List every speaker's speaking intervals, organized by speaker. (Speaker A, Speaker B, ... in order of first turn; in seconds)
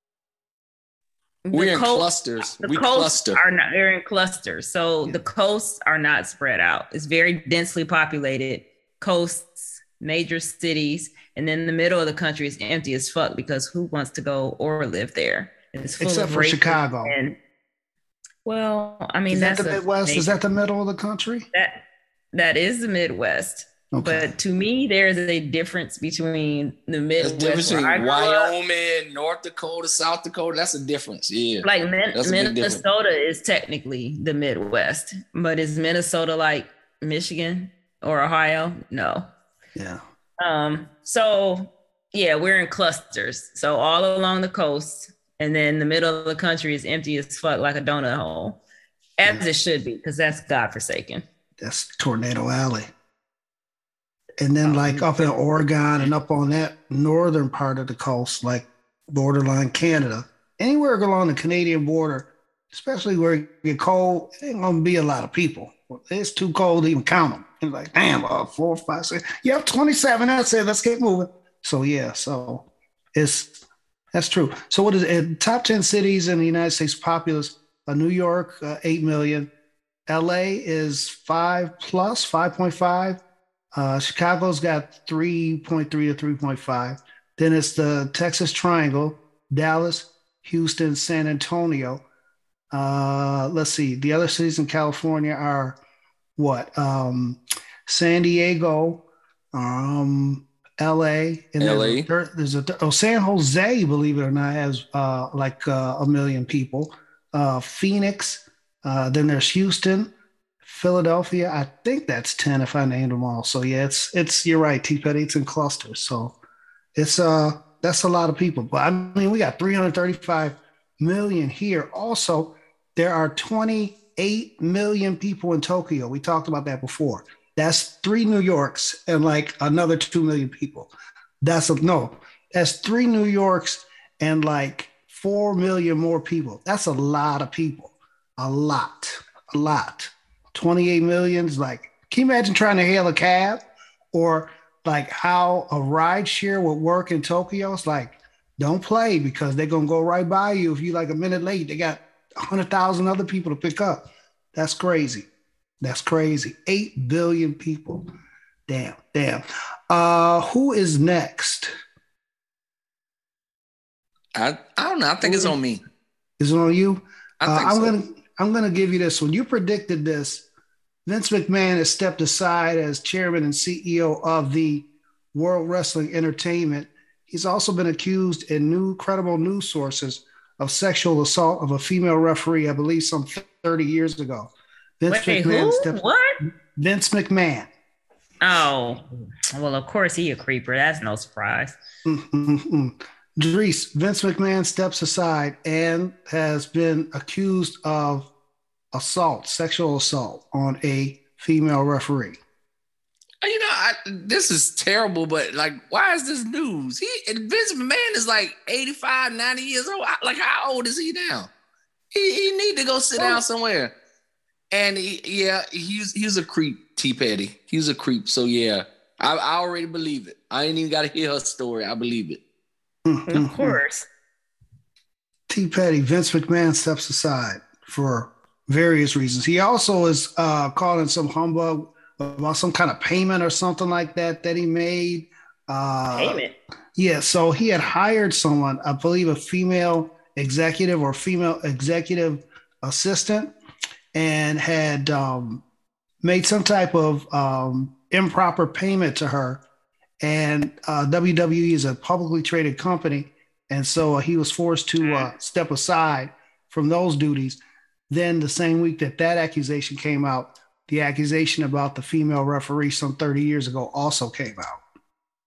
Speaker A: 1.4-17.4, 18.4-20.3, 21.5-28.5, 31.6-39.3, 40.4-48.6, 49.2-51.2, 54.7-55.1, 185.1-186.4, 188.4-191.8, 223.3-224.1, 236.1-236.5, 255.0-255.3
Speaker B: 1.5-3.4, 27.2-32.8, 101.6-102.1, 164.3-165.8, 167.4-167.9, 203.4-211.5, 212.1-213.9, 214.7-222.4
Speaker C: 16.0-17.1, 19.3-21.4, 23.9-24.3, 39.8-40.0, 51.6-52.9, 54.4-73.6, 74.1-79.5, 80.1-83.2, 83.7-92.0, 92.7-95.8, 96.4-99.0, 99.5-110.1, 110.6-116.3, 117.0-130.9, 131.4-143.6, 144.1-155.3, 155.8-158.1, 158.7-161.7, 165.2-165.5, 166.4-170.5, 171.1-187.7, 192.1-198.3, 198.9-202.4, 223.1-223.8, 225.5-236.4, 236.9-243.5, 244.1-245.6, 246.2-249.6, 250.2-264.8